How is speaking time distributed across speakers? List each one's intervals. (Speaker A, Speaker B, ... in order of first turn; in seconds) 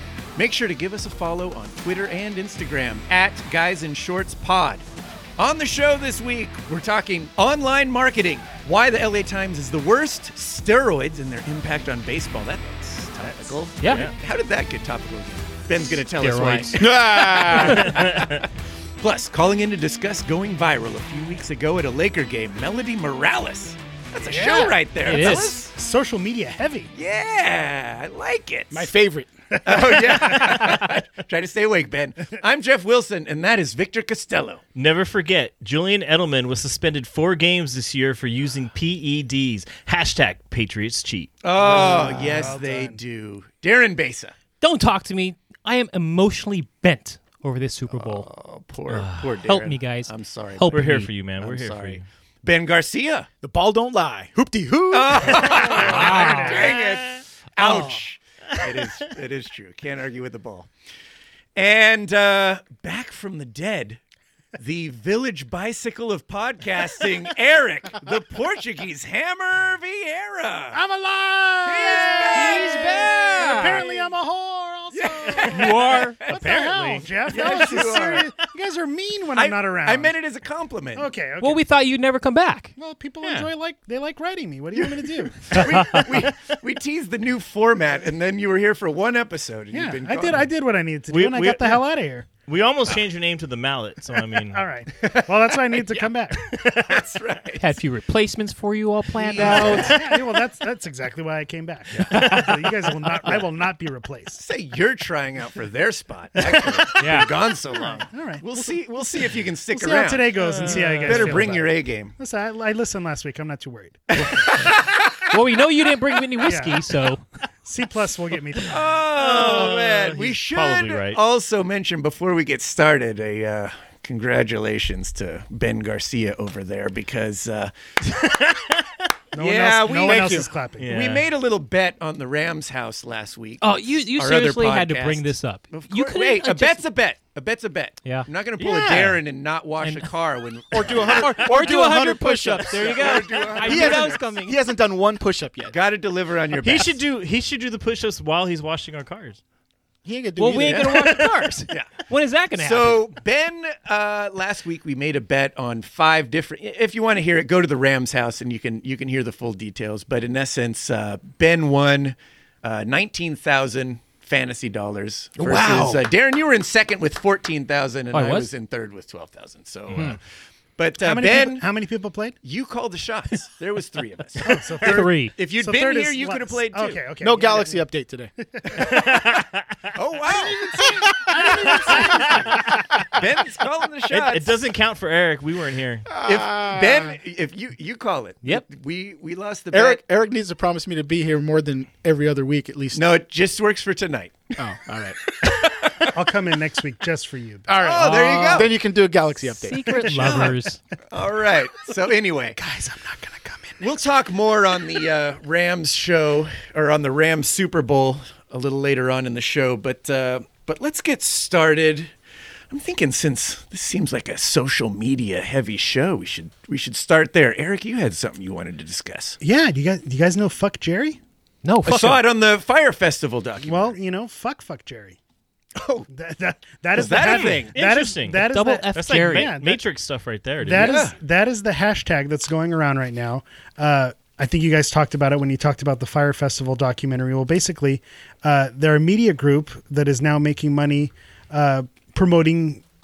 Speaker A: 0.4-4.9, 5.4-18.5, 19.0-25.7, 26.9-28.9, 29.6-34.6, 41.4-44.4, 47.9-53.3, 54.9-60.7, 61.6-64.0, 64.6-70.8, 71.7-73.9, 74.9-76.4, 77.3-78.3, 79.3-81.1, 85.4-90.5, 95.0-96.1, 96.7-97.8, 99.1-100.0, 104.4-112.1, 114.1-115.3, 118.7-127.7, 129.4-141.7, 142.7-144.3, 145.7-147.0, 150.6-152.0, 152.5-170.2, 170.8-171.6, 172.4-177.1, 178.8-179.1, 179.9-180.9, 181.7-182.0, 183.1-184.5, 186.2-190.0, 192.9-194.5, 195.3-196.1, 197.8-198.8, 200.1-200.6, 201.1-202.6, 203.8-212.1, 212.7-219.4, 221.8-223.9, 225.8-226.1, 226.9-227.7, 230.8-231.1
Speaker B: 13.8-14.1, 16.1-16.8, 25.0-25.7, 44.6-48.3, 48.9-51.1, 55.7-56.8, 72.3-73.0, 73.5-73.8, 75.5-78.0, 81.4-82.8, 85.7-86.0, 97.6-100.0, 107.0-107.3, 115.3-117.2, 133.6-136.8, 138.0-139.2, 139.8-140.1, 141.0-144.6, 150.4-153.1, 168.1-168.5, 174.8-175.4, 199.6-200.8, 221.6-222.2, 228.4-229.5
Speaker C: 13.8-14.1, 17.6-18.4, 34.8-41.9, 50.7-52.0, 56.0-58.0, 58.5-58.9, 83.2-83.5, 91.1-91.8, 92.5-94.7, 102.1-102.8, 110.4-111.4, 119.1-121.2, 128.1-128.7, 130.8-131.3, 146.6-149.4, 178.9-179.5, 184.1-186.1, 227.2-231.0
Speaker D: 16.8-18.2, 28.7-29.3, 53.4-55.8, 130.0-130.5, 140.7-142.9, 143.6-145.7, 150.1-150.9, 165.4-166.1, 177.2-178.3, 180.3-182.6, 186.1-187.2, 189.7-193.1, 194.6-195.2, 197.7-200.0
Speaker E: 24.2-26.9, 29.7-30.7, 41.6-43.0, 70.7-80.2, 81.0-81.6, 82.8-86.0, 89.7-92.3, 94.5-96.4, 99.4-104.4, 106.5-107.0, 107.7-114.6, 116.4-116.9, 117.6-118.9, 129.3-130.9, 171.0-172.4, 174.4-177.8, 178.4-178.8, 180.7-182.7, 196.1-197.7, 199.9-200.5, 202.6-204.1, 219.4-221.2, 223.6-225.2, 226.1-229.8, 230.6-242.8